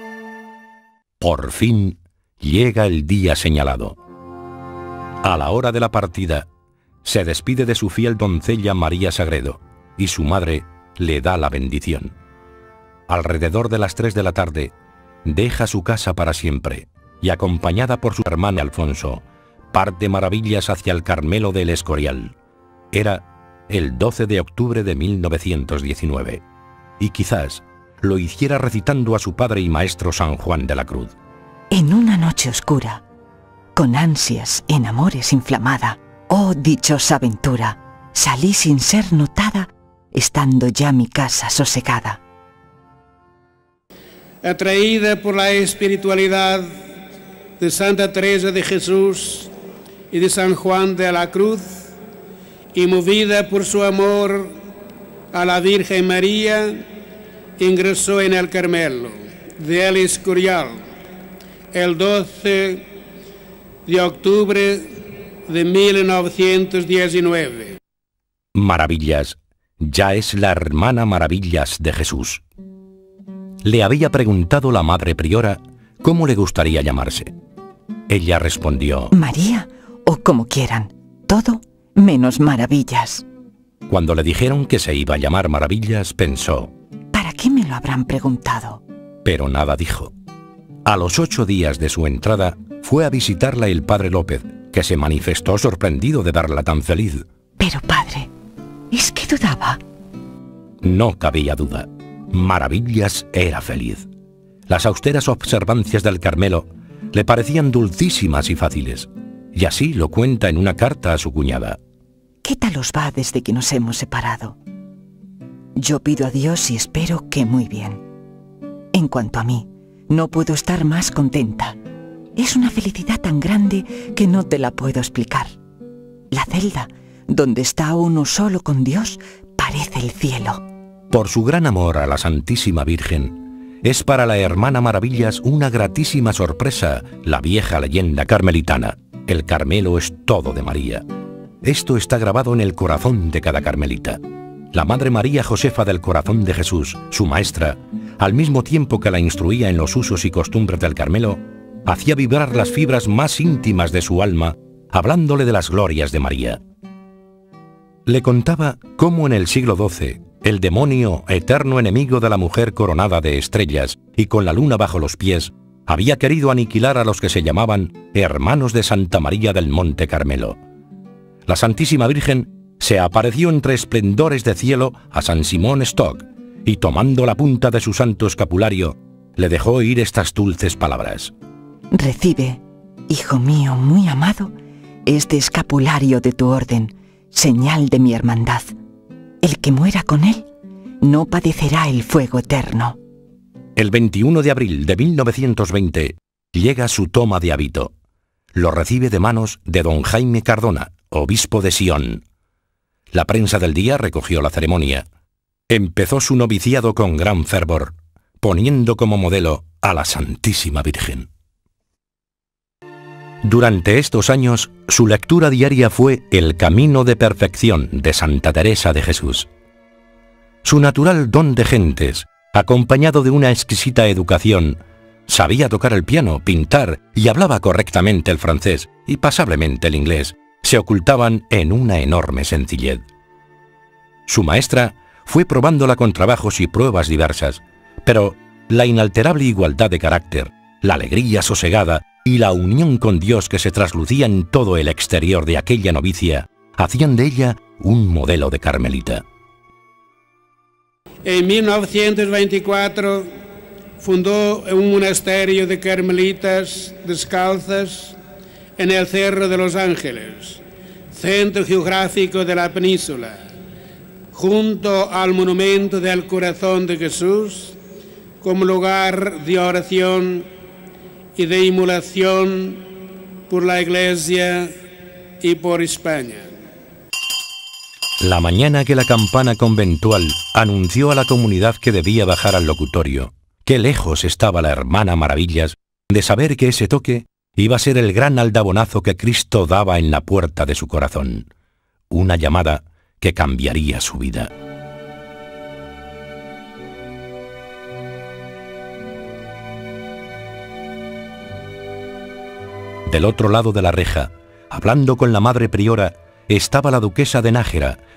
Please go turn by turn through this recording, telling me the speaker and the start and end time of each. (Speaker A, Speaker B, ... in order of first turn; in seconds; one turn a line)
Speaker A: 1.2-4.0
Speaker A: 5.2-6.5
Speaker A: 7.0-12.1
Speaker A: 13.1-14.7
Speaker A: 15.2-22.3
Speaker A: 22.9-26.4
Speaker A: 27.0-31.1
Speaker B: 31.7-33.0
Speaker B: 33.7-42.2
Speaker C: 44.4-46.7
Speaker C: 47.6-49.5
Speaker C: 50.1-51.8
Speaker C: 52.7-54.5
Speaker C: 55.3-56.8
Speaker C: 57.6-60.8
Speaker C: 61.7-62.8
Speaker C: 63.9-64.9
Speaker C: 65.5-67.8
Speaker A: 68.5-72.4
Speaker A: 73.6-77.3
Speaker A: 78.1-79.1
Speaker B: 79.1-83.2
Speaker A: 83.9-86.7
Speaker B: 87.1-88.8
Speaker A: 89.2-90.1
Speaker A: 90.8-97.2
Speaker B: 97.6-98.3
Speaker B: 98.9-99.8
Speaker A: 100.8-104.1
Speaker A: 104.7-111.8
Speaker B: 112.4-114.6
Speaker B: 115.8-118.0
Speaker B: 118.9-121.8
Speaker B: 122.4-125.5
Speaker B: 126.3-130.6
Speaker A: 131.1-141.0
Speaker A: 141.6-144.2
Speaker A: 144.7-156.6
Speaker A: 158.1-170.6
Speaker A: 171.5-181.3
Speaker B: 181.9-184.5
Speaker B: 185.1-188.7
Speaker B: 189.4-190.5
Speaker B: 191.0-193.0
Speaker A: 193.8-197.9
Speaker A: 198.5-202.2
Speaker A: 203.1-205.1
Speaker A: 205.7-211.3
Speaker A: 213.4-219.5
Speaker A: 220.6-233.0
Speaker A: 234.3-249.2
Speaker C: 251.2-253.3
Speaker C: 254.0-258.1
Speaker C: 258.8-260.6
Speaker C: 261.1-263.4
Speaker C: 264.3-267.8
Speaker C: 268.4-270.5
Speaker C: 271.4-272.8
Speaker C: 273.5-274.7
Speaker C: 275.4-276.5
Speaker A: 278.2-291.5
Speaker A: 292.1-294.5
Speaker A: 303.1-308.0